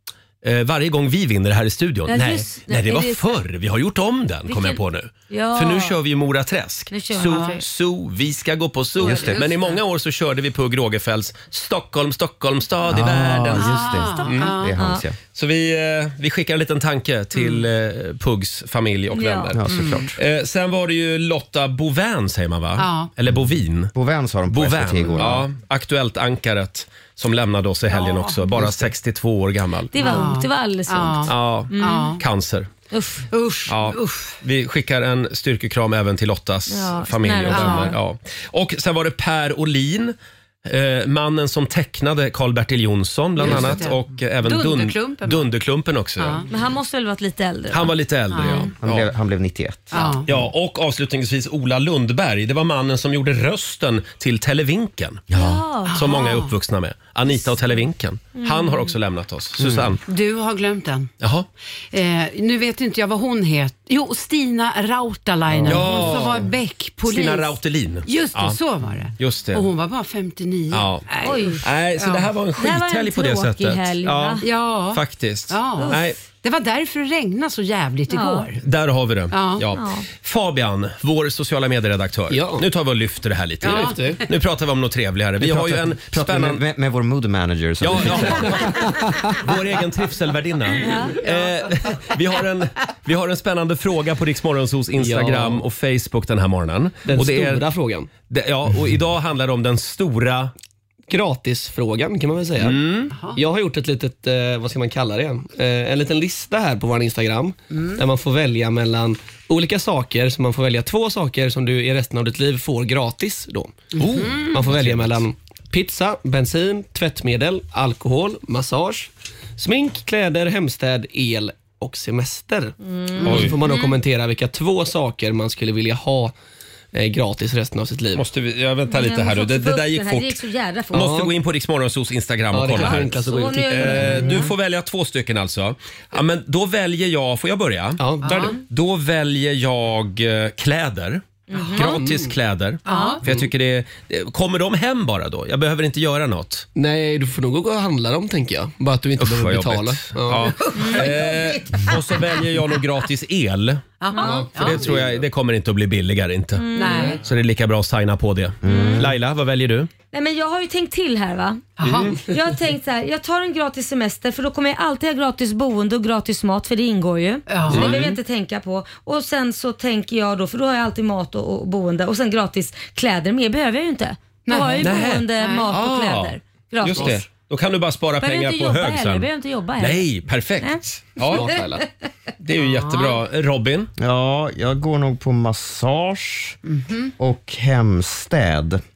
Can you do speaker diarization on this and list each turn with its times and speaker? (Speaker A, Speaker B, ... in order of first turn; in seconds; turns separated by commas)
Speaker A: 0.4-14.5, Speaker B: 2.1-3.4, Speaker B: 4.5-5.9, Speaker B: 6.9-7.6, Speaker C: 7.3-7.6, Speaker D: 9.0-9.4, Speaker C: 9.0-9.8, Speaker D: 12.9-15.2, Speaker C: 13.5-14.7, Speaker B: 13.7-15.0, Speaker A: 15.3-23.9, Speaker B: 19.1-19.5, Speaker D: 19.5-20.1, Speaker C: 22.8-23.1, Speaker D: 23.9-25.4, Speaker A: 24.5-29.9, Speaker C: 27.9-28.5, Speaker B: 29.9-32.1, Speaker C: 30.0-32.2, Speaker A: 31.3-32.7, Speaker B: 32.9-33.3, Speaker C: 33.3-34.4, Speaker A: 33.7-46.4, Speaker B: 36.7-38.0, Speaker C: 37.5-38.0, Speaker C: 43.4-45.5, Speaker C: 46.2-46.5, Speaker B: 46.5-48.7, Speaker A: 47.7-49.1, Speaker C: 48.3-48.7, Speaker D: 48.8-50.2, Speaker C: 49.9-50.2, Speaker A: 50.2-60.0, Speaker B: 55.3-56.0, Speaker C: 55.9-56.5, Speaker B: 58.4-58.9, Speaker D: 59.6-59.9, Speaker C: 60.1-61.1, Speaker A: 61.2-61.5, Speaker C: 61.9-72.3, Speaker A: 65.6-66.5, Speaker D: 65.6-65.9, Speaker A: 67.0-68.6, Speaker A: 69.2-69.7, Speaker A: 70.7-71.1, Speaker B: 71.2-71.6, Speaker A: 71.6-76.2, Speaker B: 72.6-74.5, Speaker C: 74.4-78.6, Speaker B: 78.1-78.5, Speaker A: 78.6-86.6, Speaker C: 79.3-79.6, Speaker B: 79.7-80.0, Speaker E: 82.3-82.7, Speaker E: 83.6-84.2, Speaker C: 83.6-84.0, Speaker D: 85.4-88.9, Speaker A: 87.8-97.6, Speaker E: 88.7-89.1, Speaker B: 90.8-91.2, Speaker E: 95.0-95.6, Speaker E: 97.0-98.1, Speaker A: 98.3-100.5, Speaker E: 101.1-126.3, Speaker A: 102.6-103.1, Speaker C: 103.1-103.4, Speaker A: 114.0-115.2, Speaker C: 114.0-114.5, Speaker B: 122.8-124.0, Speaker A: 123.2-123.5, Speaker E: 126.9-128.2, Speaker A: 128.2-130.4, Speaker B: 128.9-131.1, Speaker E: 130.9-131.3, Speaker A: 130.9-146.7, Speaker E: 132.5-134.4, Speaker B: 132.8-134.5, Speaker E: 138.0-138.5, Speaker C: 138.2-138.5, Speaker B: 141.5-142.0, Speaker E: 141.8-142.3, Speaker C: 142.8-143.2, Speaker B: 142.9-143.2, Speaker E: 146.8-150.6, Speaker A: 149.2-153.9, Speaker B: 150.7-151.1, Speaker C: 150.7-151.9, Speaker C: 154.0-154.8, Speaker B: 154.1-154.5, Speaker E: 154.2-155.2, Speaker A: 154.5-159.9, Speaker B: 156.6-157.2, Speaker C: 156.7-157.2, Speaker D: 158.6-159.1, Speaker B: 158.7-159.1, Speaker B: 160.1-161.6, Speaker C: 161.8-162.2, Speaker A: 161.8-162.2, Speaker B: 162.3-177.1, Speaker C: 167.5-168.1, Speaker A: 167.7-168.1, Speaker C: 174.4-175.7, Speaker A: 174.8-181.6, Speaker E: 176.9-177.2, Speaker B: 178.2-180.1, Speaker B: 180.6-181.6, Speaker E: 181.2-181.8, Speaker A: 182.4-183.9, Speaker C: 182.6-183.2, Speaker D: 184.0-186.6, Speaker C: 186.7-187.1, Speaker D: 187.2-188.8